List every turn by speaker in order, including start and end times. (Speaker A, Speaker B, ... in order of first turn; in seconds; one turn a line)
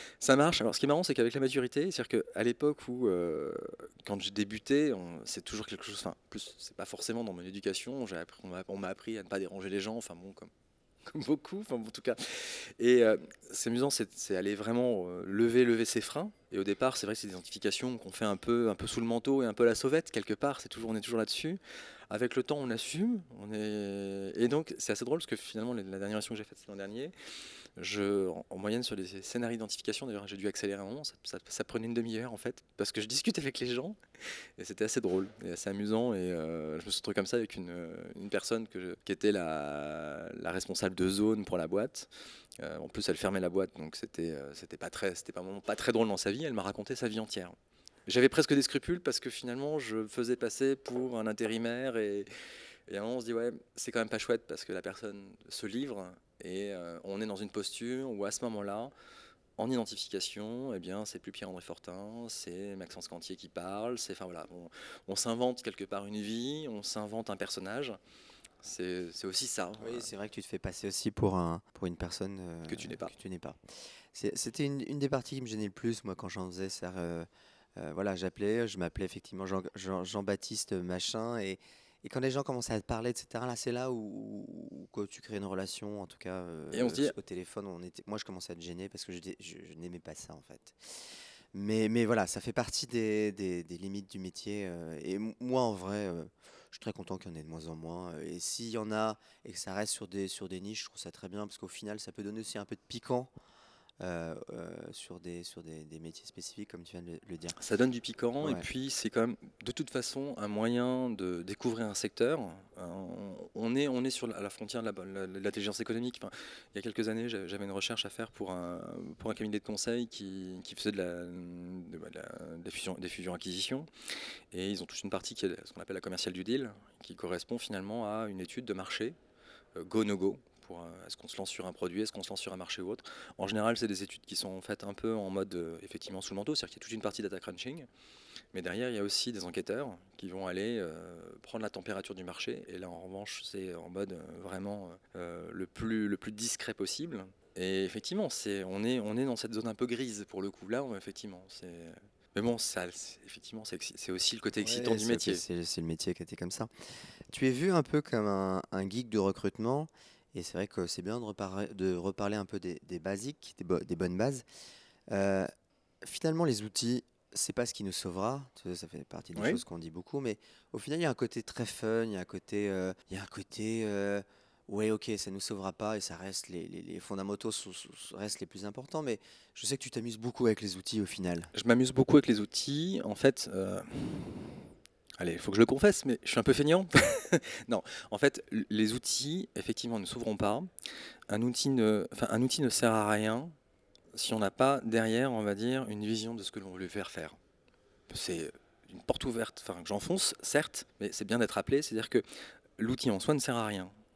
Speaker A: 0.2-10.5
Speaker A: 11.1-27.1
Speaker A: 27.8-34.0
Speaker A: 34.6-47.5
Speaker A: 48.1-52.3
Speaker A: 52.9-58.9
Speaker A: 59.6-68.0
Speaker A: 68.6-70.1
Speaker B: 69.8-73.6
Speaker A: 72.7-73.1
Speaker B: 74.1-103.3
Speaker A: 86.7-87.1
Speaker B: 104.0-107.6
Speaker A: 107.6-123.9
Speaker B: 108.4-108.7
Speaker A: 124.5-129.2
Speaker A: 129.8-137.9
Speaker A: 138.5-155.4
Speaker B: 154.6-156.7
Speaker B: 157.3-164.4
Speaker B: 165.1-165.5
Speaker B: 166.0-181.5
Speaker A: 169.4-169.6
Speaker A: 181.5-184.6
Speaker A: 185.2-190.7
Speaker A: 191.3-193.5
Speaker A: 194.1-197.4
Speaker A: 198.1-202.2
Speaker A: 202.8-203.9